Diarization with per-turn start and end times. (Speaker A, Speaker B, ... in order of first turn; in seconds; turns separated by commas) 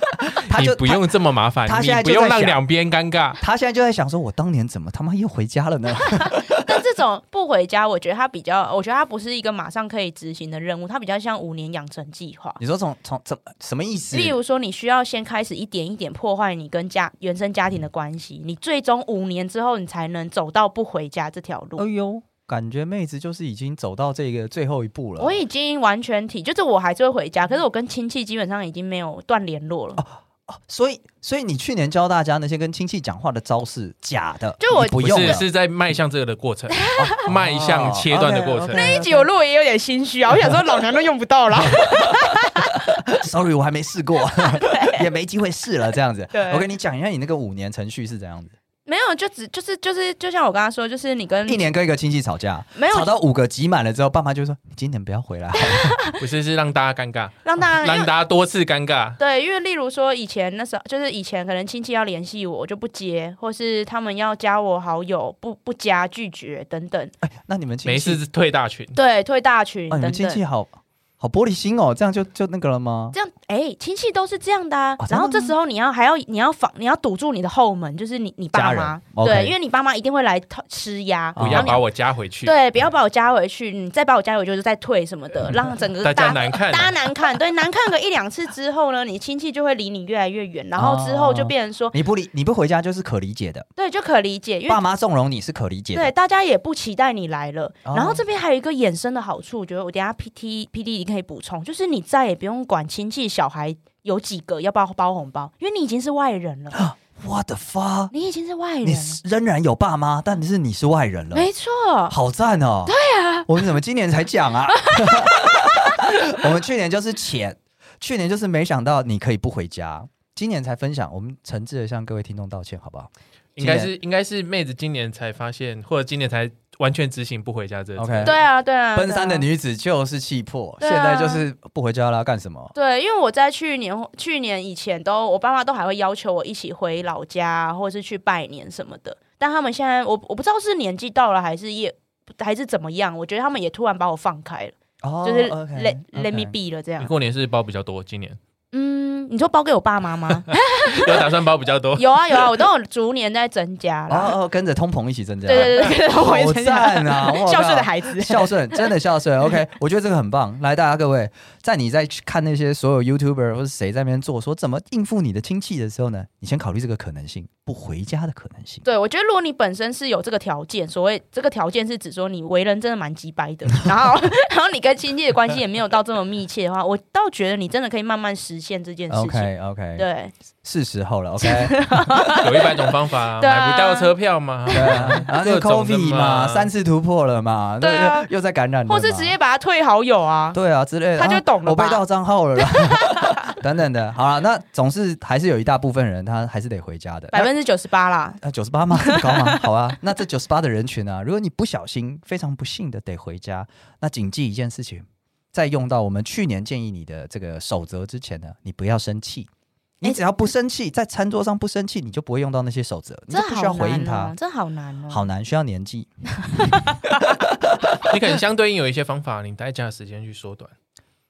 Speaker A: 0.3-1.0, Speaker B: 0.5-3.4, Speaker A: 1.7-2.6, Speaker A: 3.4-6.8, Speaker C: 6.1-12.6, Speaker A: 12.6-14.4, Speaker C: 14.1-21.8, Speaker A: 21.8-25.4, Speaker C: 25.2-30.0, Speaker A: 30.0-35.5, Speaker C: 34.6-35.3, Speaker B: 35.0-38.9, Speaker C: 36.8-37.2, Speaker A: 37.0-39.3, Speaker C: 38.7-42.8, Speaker A: 41.7-42.0, Speaker A: 43.1-48.5, Speaker C: 44.4-45.0, Speaker C: 46.3-46.7, Speaker C: 48.9-51.6, Speaker A: 51.5-56.0, Speaker C: 52.8-53.1, Speaker C: 55.6-56.2, Speaker B: 56.2-59.2, Speaker C: 57.4-58.1, Speaker C: 59.2-67.1, Speaker A: 67.2-68.2, Speaker B: 67.8-69.0, Speaker C: 68.9-70.4, Speaker A: 69.9-73.2, Speaker C: 73.1-81.8, Speaker A: 75.0-75.5, Speaker A: 78.5-79.6, Speaker A: 81.3-81.8, Speaker B: 81.4-82.5, Speaker C: 82.4-92.0, Speaker B: 86.0-86.9, Speaker A: 90.8-93.7, Speaker C: 93.8-94.8, Speaker A: 94.7-96.1, Speaker C: 95.9-106.8, Speaker A: 97.8-98.2, Speaker A: 106.8-108.1, Speaker C: 108.1-109.2, Speaker A: 108.8-111.5, Speaker C: 111.3-112.2, Speaker A: 112.1-113.0, Speaker C: 112.9-113.5, Speaker A: 113.5-123.9, Speaker C: 114.8-116.0, Speaker B: 123.6-128.4, Speaker A: 128.0-132.7, Speaker C: 128.2-129.4, Speaker C: 130.8-131.4, Speaker C: 132.7-147.1, Speaker A: 145.0-146.6, Speaker B: 147.0-148.4, Speaker C: 148.7-151.3, Speaker B: 150.9-152.6, Speaker C: 151.9-154.3, Speaker A: 154.1-168.8, Speaker C: 155.5-158.9, Speaker C: 168.8-180.3, Speaker A: 179.1-180.1, Speaker A: 180.6-182.6, Speaker C: 181.4-182.7, Speaker B: 182.4-186.7, Speaker C: 183.4-184.1, Speaker C: 184.7-185.2, Speaker A: 184.7-189.3, Speaker C: 187.8-188.3, Speaker C: 188.9-190.6, Speaker A: 190.5-197.5, Speaker C: 191.2-192.0, Speaker C: 192.6-193.5, Speaker C: 197.3-198.4, Speaker A: 198.4-209.5, Speaker C: 198.9-199.6, Speaker A: 210.0-214.3, Speaker C: 213.3-215.2, Speaker A: 215.1-216.9, Speaker C: 216.4-217.2, Speaker B: 218.1-220.7